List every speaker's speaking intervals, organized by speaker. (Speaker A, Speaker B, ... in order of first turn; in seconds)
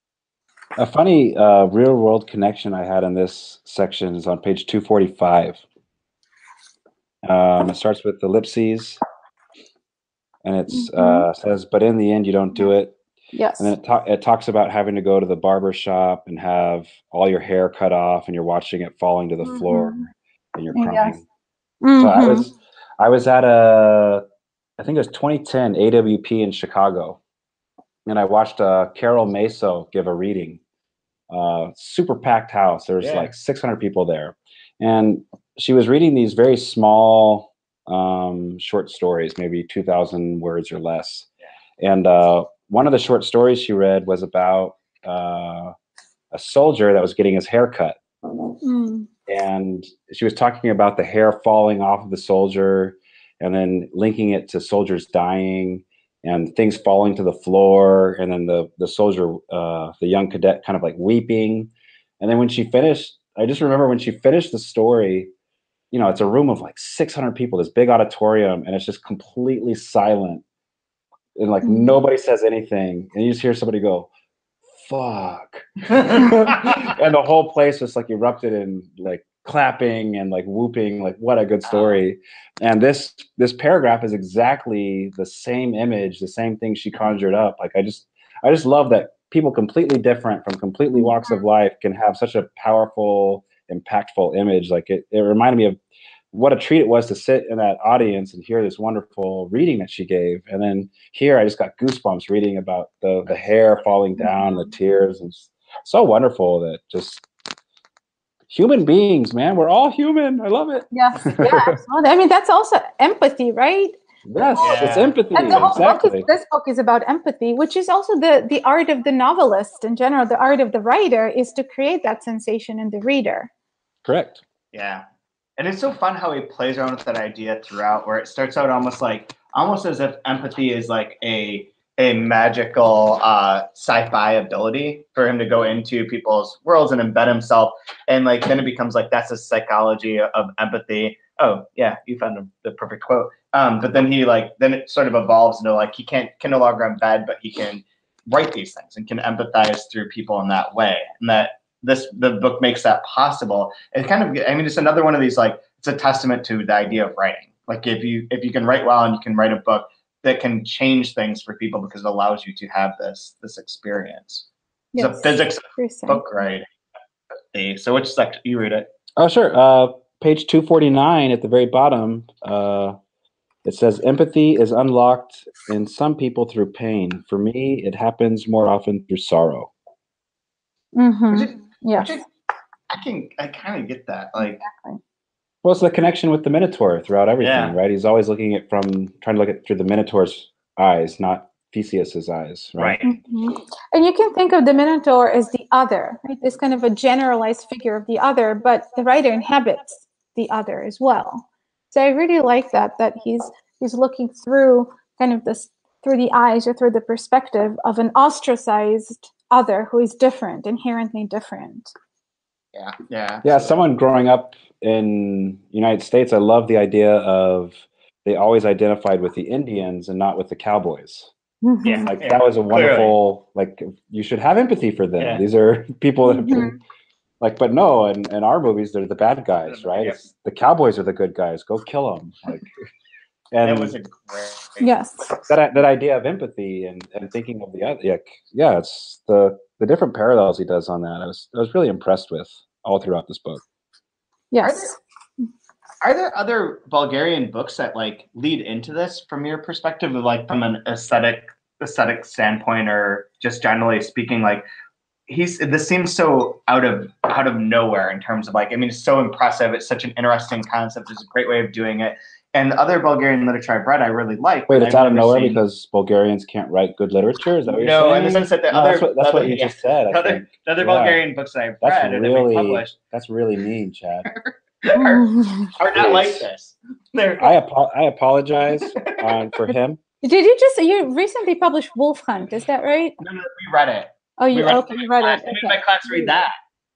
Speaker A: 0.8-5.6, 7.2-9.0, 10.4-13.0, 13.6-21.2, 22.0-24.2, 24.8-27.2, 28.1-30.6, 31.3-41.3, 41.8-45.7, 46.3-48.0, 49.3-65.3, 65.9-70.4, 71.4-74.1, 74.8-95.8, 96.3-107.3, 108.5-111.8, 114.2-116.3, 124.0-124.4, 169.2-173.0, 173.6-179.7, 185.6-193.0, 213.4-221.3, 222.1-226.7, 227.4-232.7, 233.5-233.9, 235.5-243.6, 264.7-271.2, 271.8-274.3, 275.9-276.5, 277.4-280.0
Speaker B: 10.7-11.3, 13.3-13.7, 19.4-20.0, 20.7-21.2, 21.8-22.5, 48.6-49.1, 71.6-72.0, 91.0-91.3, 104.2-104.7, 110.9-114.0, 114.5-123.5, 164.9-166.2, 180.9-182.2, 184.4-185.0, 193.0-211.9, 221.6-222.1, 226.2-226.8, 234.8-235.3, 244.5-245.0, 274.9-275.7, 280.2-283.1, 284.4-286.3
Speaker C: 33.0-33.3, 81.7-82.0, 114.6-115.2, 124.7-125.0, 125.6-166.7, 167.5-168.9, 181.3-182.3, 182.9-184.6, 187.4-187.8, 192.8-193.1, 212.8-213.8, 221.8-223.2, 225.2-225.4, 229.6-230.3, 233.6-234.9, 244.6-244.9, 246.0-254.7, 255.3-265.6, 267.7-273.0, 274.3-277.5, 278.8-279.6, 283.2-286.5